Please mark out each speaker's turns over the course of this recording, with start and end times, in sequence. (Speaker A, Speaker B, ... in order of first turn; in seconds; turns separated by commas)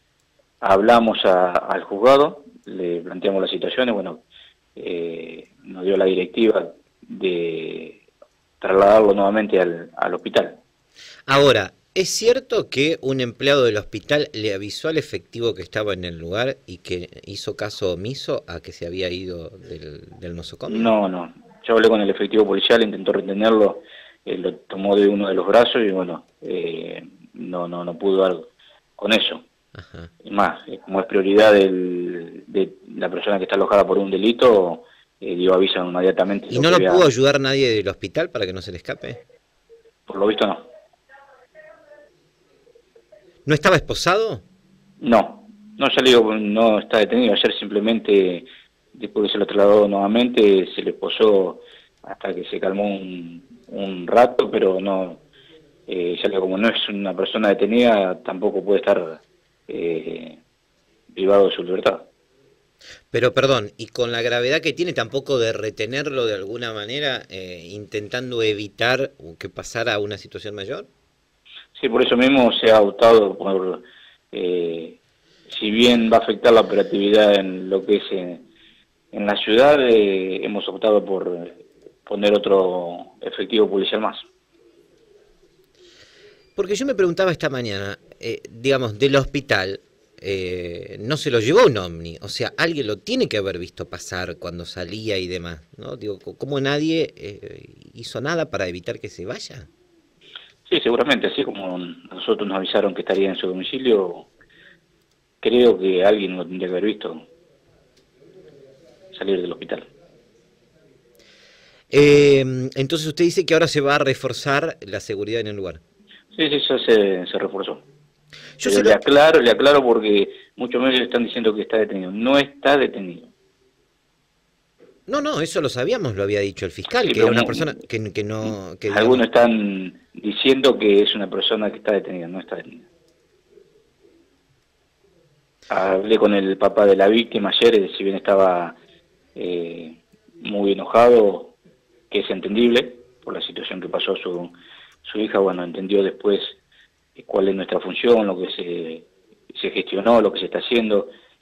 Speaker A: 0.6-4.2, Speaker A: 4.8-8.0, Speaker A: 8.6-10.6, Speaker B: 11.3-20.9, Speaker A: 20.7-29.4, Speaker B: 29.7-30.1, Speaker A: 30.2-37.1, Speaker B: 36.5-39.2, Speaker A: 40.1-40.7, Speaker B: 43.5-44.4, Speaker A: 45.0-55.2, Speaker A: 55.9-60.4, Speaker A: 61.1-62.1, Speaker B: 63.1-70.9, Speaker A: 71.8-78.5, Speaker A: 79.1-84.2, Speaker B: 86.5-99.7, Speaker A: 100.7-104.3, Speaker A: 105.4-107.3, Speaker A: 109.1-109.9, Speaker B: 111.9-115.8, Speaker A: 116.3-117.8, Speaker B: 118.6-119.0, Speaker A: 118.6-123.3, Speaker B: 125.1-129.2, Speaker A: 127.0-127.8, Speaker A: 128.4-132.9, Speaker A: 135.7-138.8, Speaker A: 139.3-141.5, Speaker A: 142.1-146.6, Speaker A: 147.2-151.1